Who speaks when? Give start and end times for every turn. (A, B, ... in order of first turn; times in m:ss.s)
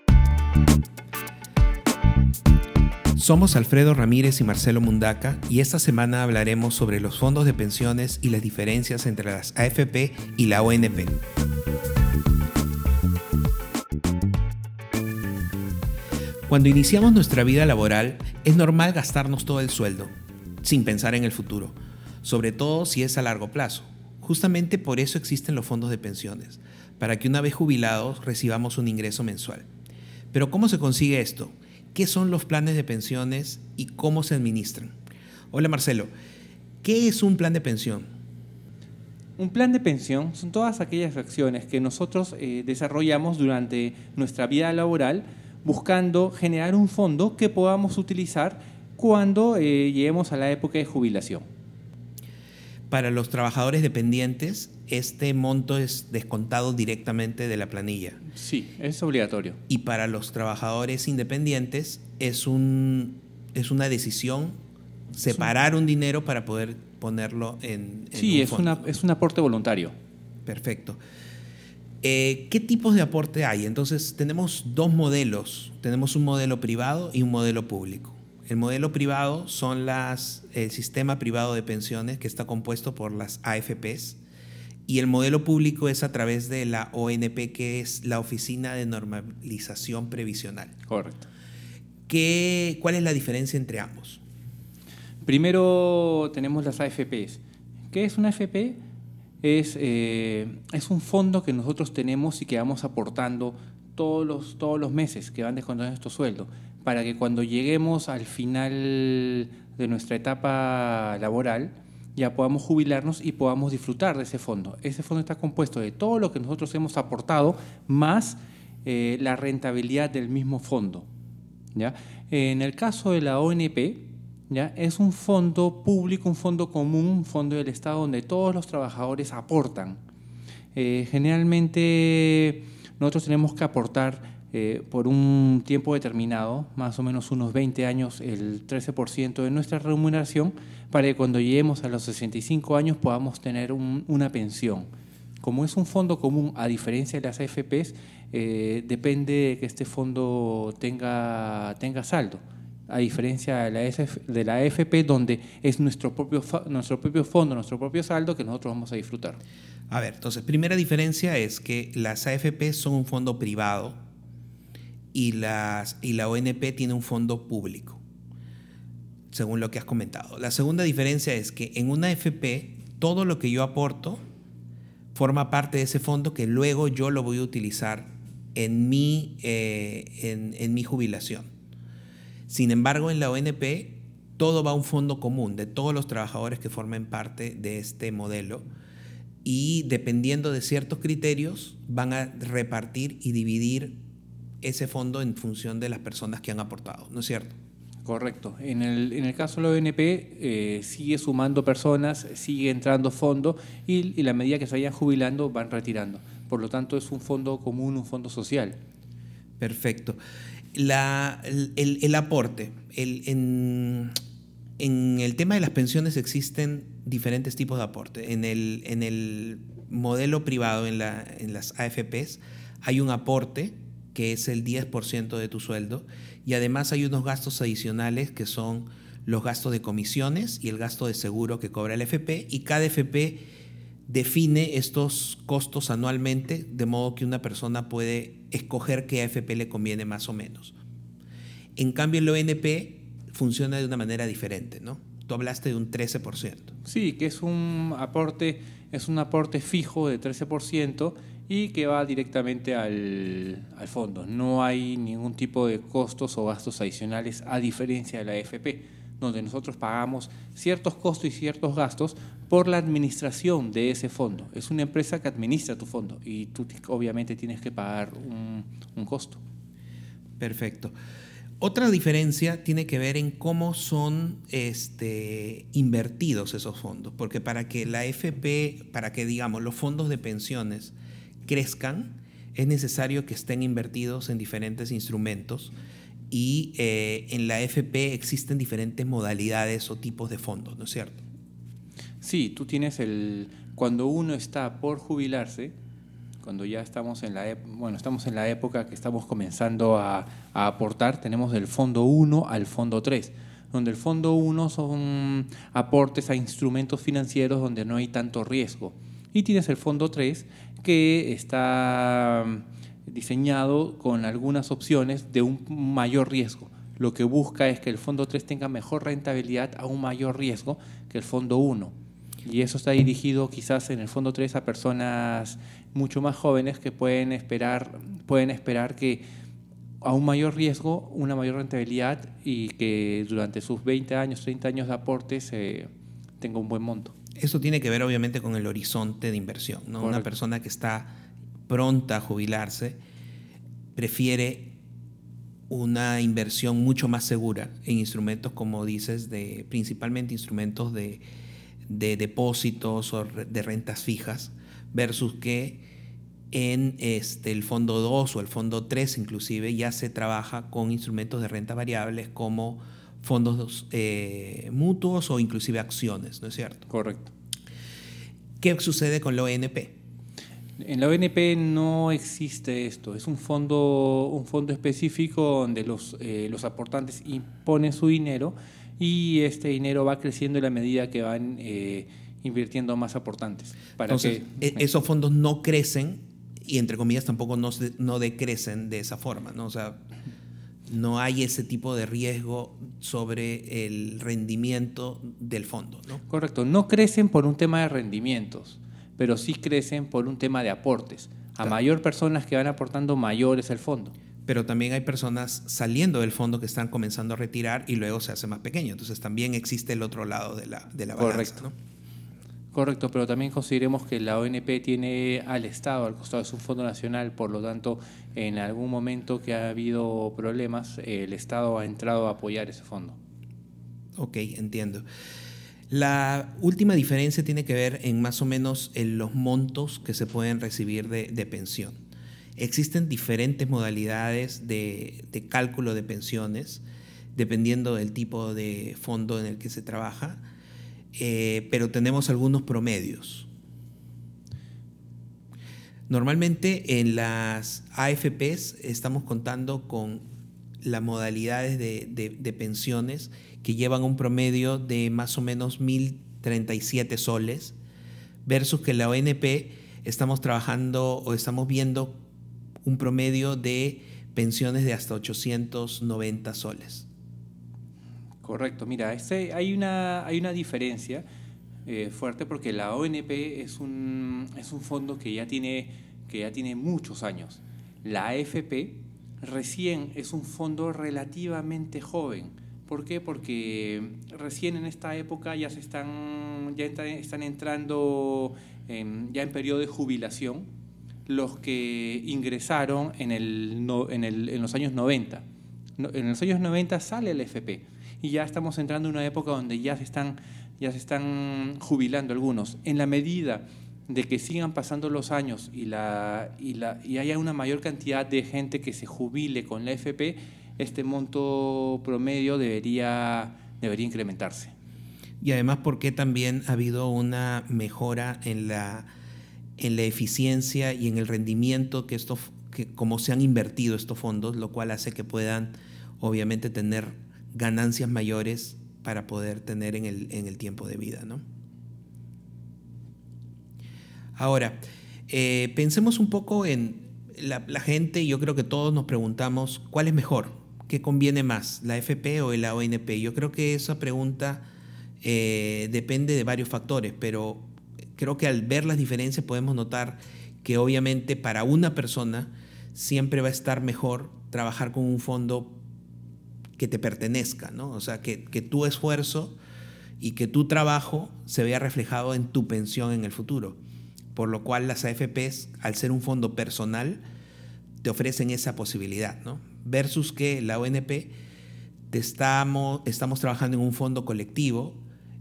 0:03.2-0:11.2 A
0:16.5-0:20.1 A
0:20.6-0:29.7 A
0:30.3-0:35.0 A
0:35.5-0:36.1 A
0:36.8-0:38.1 A
0:39.4-0:51.4 B
0:52.9-0:58.2 A
0:58.3-0:59.6 B
0:59.7-1:04.6 A
1:05.1-1:08.9 A
1:08.1-1:09.9 B
1:10.5-1:11.0 A
1:12.0-1:24.2 A
1:24.9-1:30.7 A
1:30.9-1:31.3 B
1:32.1-1:34.2 A
1:35.2-1:37.4 B
1:37.9-1:38.8 B
1:39.4-2:01.1 B
2:01.8-2:10.0 B
2:10.8-2:24.9 B
2:25.4-2:39.4 B
2:39.9-2:44.0 A
2:45.1-2:48.0 A
2:49.3-2:54.2 A
2:55.1-3:01.5 A
3:02.5-3:08.6 A
3:09.4-3:14.0 A
3:14.6-3:17.5 A
3:18.0-3:28.8 B
3:29.6-3:30.2 A
3:30.7-3:34.1 A
3:34.8-3:53.4 A
3:54.1-4:00.8 A
4:01.8-4:06.7 A
4:06.8-4:29.4 B
4:30.4-4:31.0 A
4:31.6-4:41.0 A
4:41.5-4:45.7 A
4:46.3-4:51.2 A
4:52.2-4:55.7 B
4:56.4-5:29.2 B
5:30.0-5:35.9 B
5:36.4-5:37.1 B
5:37.4-5:41.2 A
5:40.0-5:40.3 B
5:41.7-5:43.0 A
5:44.0-5:44.8 A
5:45.7-5:51.2 A
5:51.9-5:55.8 A
5:56.5-6:06.9 A
6:06.9-6:07.3 B
6:08.6-6:09.9 A
6:10.8-6:24.8 B
6:24.1-6:30.0 A
6:30.9-6:36.2 A
6:36.3-6:44.1 B
6:44.5-6:51.7 A
6:51.2-6:51.6 B
6:52.7-7:03.2 B
7:04.2-7:05.0 A
7:05.9-7:12.0 A
7:12.6-7:20.4 A
7:21.2-7:23.5 A
7:26.1-7:30.2 A
7:30.8-7:37.8 A
7:38.5-7:42.2 A
7:42.8-7:47.1 A
7:48.4-7:51.2 B
7:51.9-8:10.7 B
8:11.3-8:15.4 B
8:16.0-8:34.7 B
8:35.4-8:39.1 A
8:39.8-8:51.4 A
8:54.4-9:04.6 A
9:05.2-9:15.8 A
9:16.8-9:19.6 A
9:20.2-9:23.8 A
9:24.3-9:27.2 A
9:28.0-9:31.3 A
9:32.1-9:35.0 A